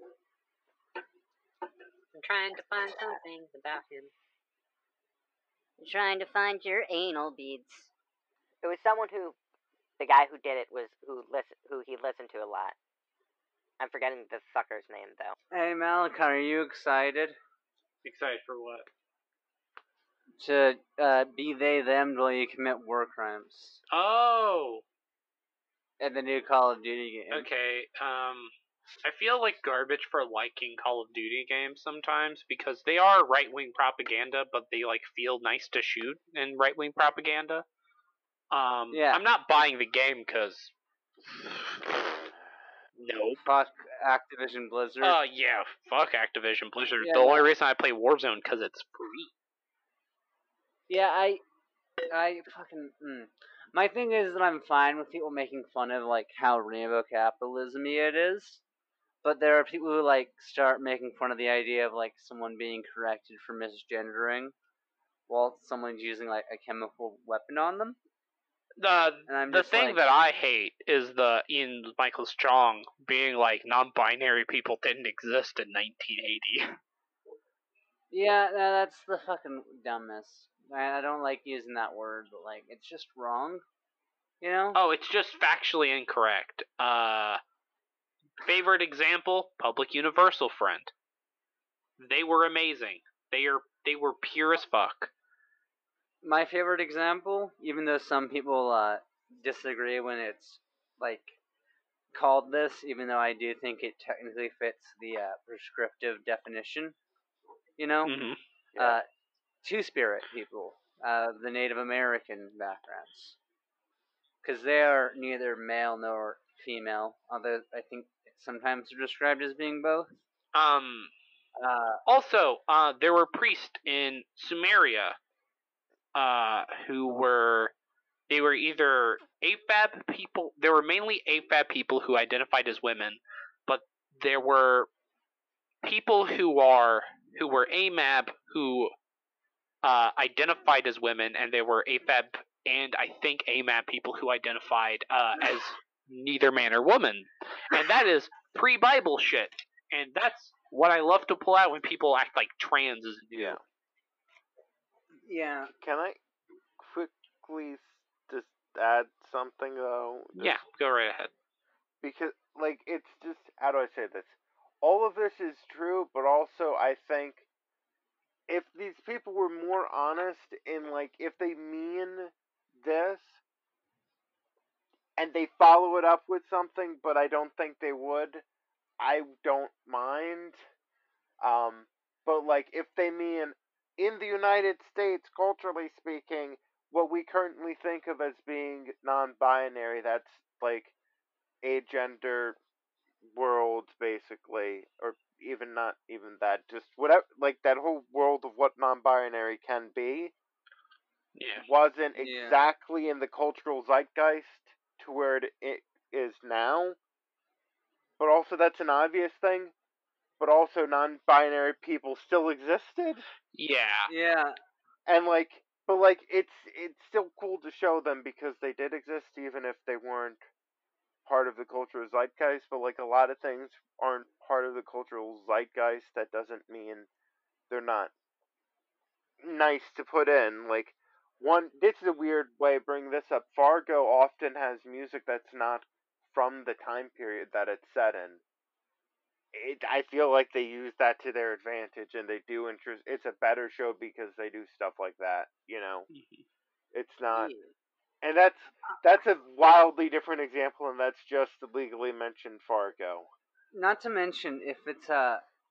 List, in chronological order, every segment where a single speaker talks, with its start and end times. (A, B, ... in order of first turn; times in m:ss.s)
0:02.1-0:04.1 A
0:05.8-0:07.9 B
0:08.6-0:09.4 C
0:10.0-0:12.8 C
0:13.8-0:15.3 C
0:15.5-0:17.4 D
0:18.0-0:18.9 E
0:20.4-0:23.8 D
0:23.9-0:24.8 E
0:26.0-0:27.5 D
0:27.3-0:28.5 E
0:29.0-0:37.6 E
0:38.5-0:40.7 E
0:38.9-0:39.2 D
0:41.3-0:42.2 E
0:43.0-0:43.4 E
0:43.4-0:45.2 D
0:45.0-0:49.3 E
0:47.0-0:47.4 D
0:50.9-0:51.4 D
0:52.1-0:58.6 D
0:59.2-1:04.5 D
1:05.3-1:08.0 D
1:08.8-1:16.8 E
1:09.3-1:10.0 D
1:18.1-1:23.6 D
1:24.4-1:24.8 D
1:24.7-1:27.4 E
1:28.4-1:30.9 E
1:32.0-1:35.1 E
1:36.2-1:41.4 D
1:42.1-1:47.0 D
1:47.8-1:48.1 D
1:48.0-1:48.4 E
1:48.7-1:49.0 F
1:48.8-1:49.0 D
1:49.6-1:53.4 D
1:54.4-2:00.1 D
2:00.5-2:01.1 E
2:01.6-2:02.0 D
2:02.0-2:05.2 E
2:06.1-2:07.7 E
2:08.3-2:14.9 E
2:15.8-2:18.9 E
2:19.8-2:33.6 E
2:33.3-2:33.6 F
2:35.2-2:35.7 D
2:35.7-2:36.2 F
2:36.8-2:40.6 F
2:40.4-2:41.3 E
2:42.0-2:47.4 F
2:48.5-2:53.4 F
2:55.2-2:58.4 F
2:59.0-3:00.6 F
3:01.4-3:10.9 F
3:11.6-3:12.6 F
3:13.2-3:20.3 F
3:21.3-3:21.6 E
3:21.6-3:27.0 F
3:22.2-3:22.6 D
3:28.2-3:29.7 F
3:30.4-3:33.3 F
3:33.6-3:34.1 E
3:34.1-3:34.6 D
3:35.0-3:40.4 F
3:41.3-3:47.1 F
3:47.7-3:48.1 F
3:49.4-3:58.4 F
3:59.5-4:06.1 F
4:06.1-4:06.4 E
4:06.9-4:07.5 F
4:07.3-4:07.7 D
4:08.2-4:13.3 F
4:13.7-4:15.4 D